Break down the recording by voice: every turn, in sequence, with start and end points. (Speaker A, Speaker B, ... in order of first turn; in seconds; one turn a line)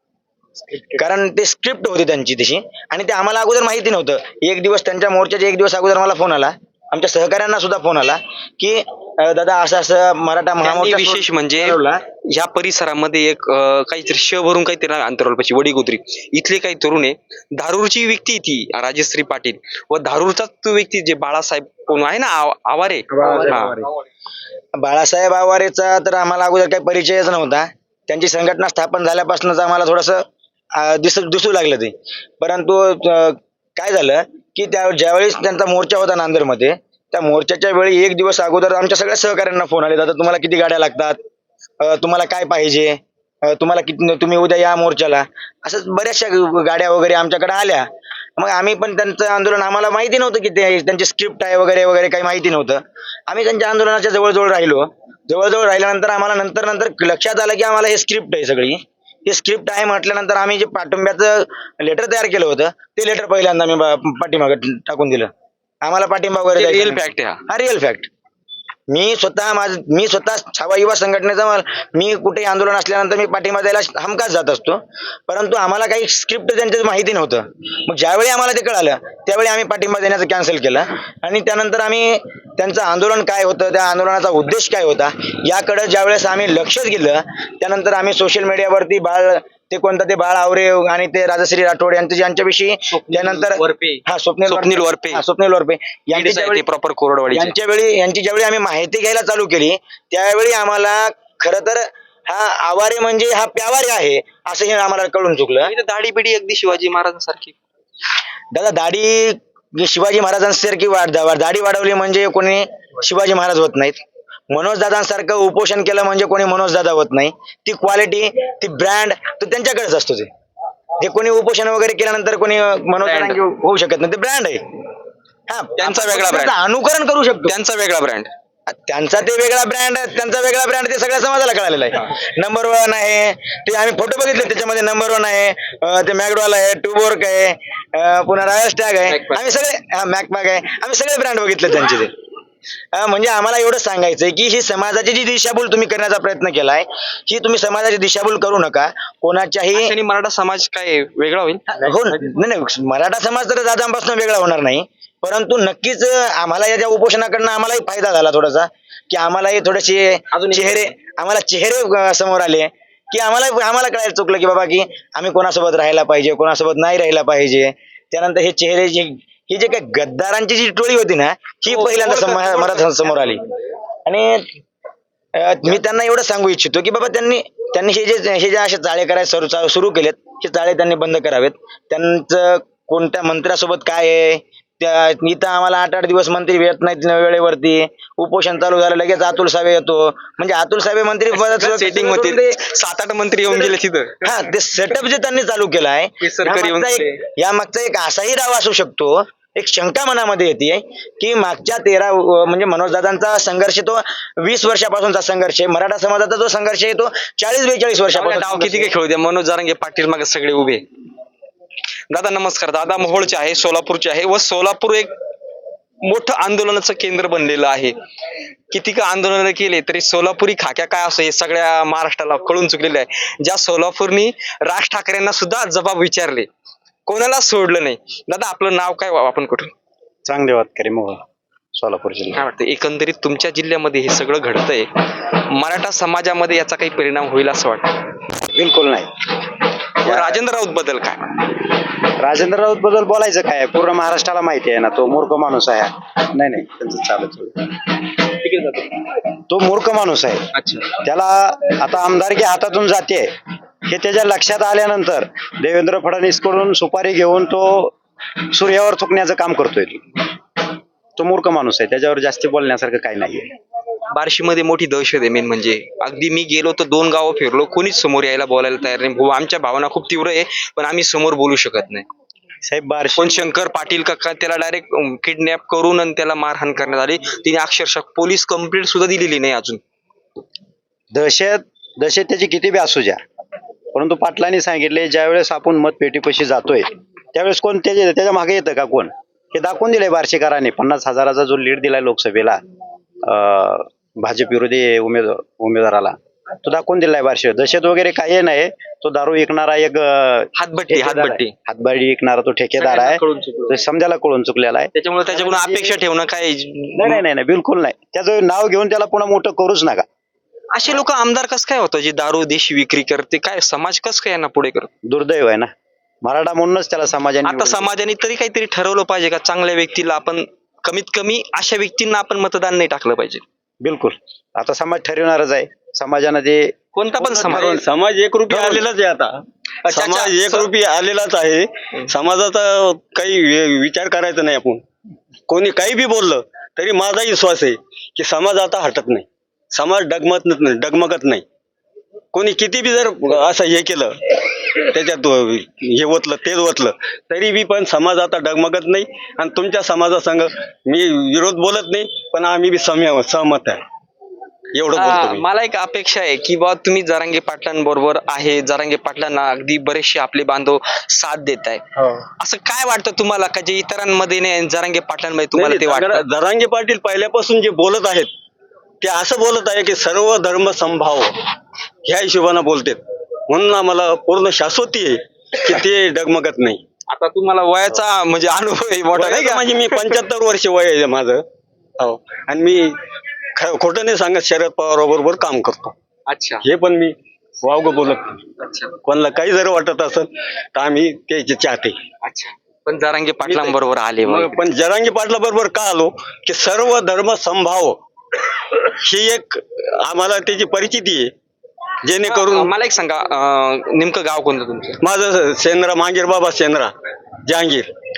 Speaker A: 0.9-12.0
Speaker B: 10.6-23.8
Speaker A: 23.1-23.8
Speaker A: 24.8-41.2
Speaker A: 41.8-65.3
Speaker A: 65.8-68.1
Speaker B: 66.5-67.4
Speaker A: 68.9-96.6
Speaker B: 92.9-95.2
Speaker B: 96.1-97.5
Speaker A: 97.3-105.7
Speaker B: 105.6-107.5
Speaker A: 108.5-120.3
Speaker A: 121.0-124.6
Speaker B: 123.0-123.4
Speaker A: 125.5-127.5
Speaker B: 125.8-126.5
Speaker B: 127.5-128.3
Speaker A: 128.7-142.1
Speaker B: 139.1-139.4
Speaker A: 142.9-149.9
Speaker B: 149.7-151.9
Speaker A: 151.7-173.4
Speaker B: 160.3-160.8
Speaker B: 171.7-173.5
Speaker A: 174.0-174.5
Speaker A: 175.4-192.6
Speaker B: 191.3-194.5
Speaker A: 194.2-208.9
Speaker B: 196.2-197.2
Speaker B: 208.1-210.8
Speaker B: 212.1-215.1
Speaker B: 216.0-217.9
Speaker B: 218.7-226.5
Speaker B: 227.1-229.7
Speaker C: 230.2-231.2
Speaker C: 231.7-232.4
Speaker B: 232.3-238.0
Speaker C: 238.4-239.3
Speaker B: 240.0-241.6
Speaker C: 240.0-240.4
Speaker C: 242.0-247.9
Speaker C: 249.5-253.3
Speaker B: 250.5-250.9
Speaker C: 253.8-257.9
Speaker C: 258.5-260.2
Speaker C: 261.1-263.5
Speaker B: 264.1-272.1
Speaker C: 272.6-273.4
Speaker B: 273.2-279.8
Speaker C: 281.1-283.2
Speaker C: 283.9-292.6
Speaker C: 293.2-306.0
Speaker B: 300.5-301.5
Speaker B: 302.8-303.8
Speaker B: 304.9-307.2
Speaker C: 307.0-310.1
Speaker B: 310.7-314.9
Speaker C: 315.0-315.7
Speaker C: 316.2-317.9
Speaker B: 317.4-323.4
Speaker C: 323.8-327.8
Speaker B: 326.9-327.8
Speaker D: 327.5-334.8
Speaker B: 328.5-328.8
Speaker B: 329.8-330.7
Speaker D: 335.5-341.4
Speaker D: 342.3-353.8
Speaker D: 354.7-355.4
Speaker B: 354.9-361.8
Speaker B: 362.4-366.2
Speaker D: 365.5-368.3
Speaker D: 369.0-371.4
Speaker D: 372.0-376.8
Speaker B: 377.1-380.2
Speaker D: 379.1-381.4
Speaker D: 382.0-382.9
Speaker D: 383.5-385.9
Speaker B: 386.3-386.6
Speaker D: 386.6-388.4
Speaker B: 388.6-388.9
Speaker D: 389.0-392.0
Speaker B: 392.2-394.6
Speaker D: 393.4-398.0
Speaker D: 398.9-401.3
Speaker D: 402.0-402.7
Speaker B: 402.2-405.0
Speaker D: 405.0-406.9
Speaker D: 407.4-407.9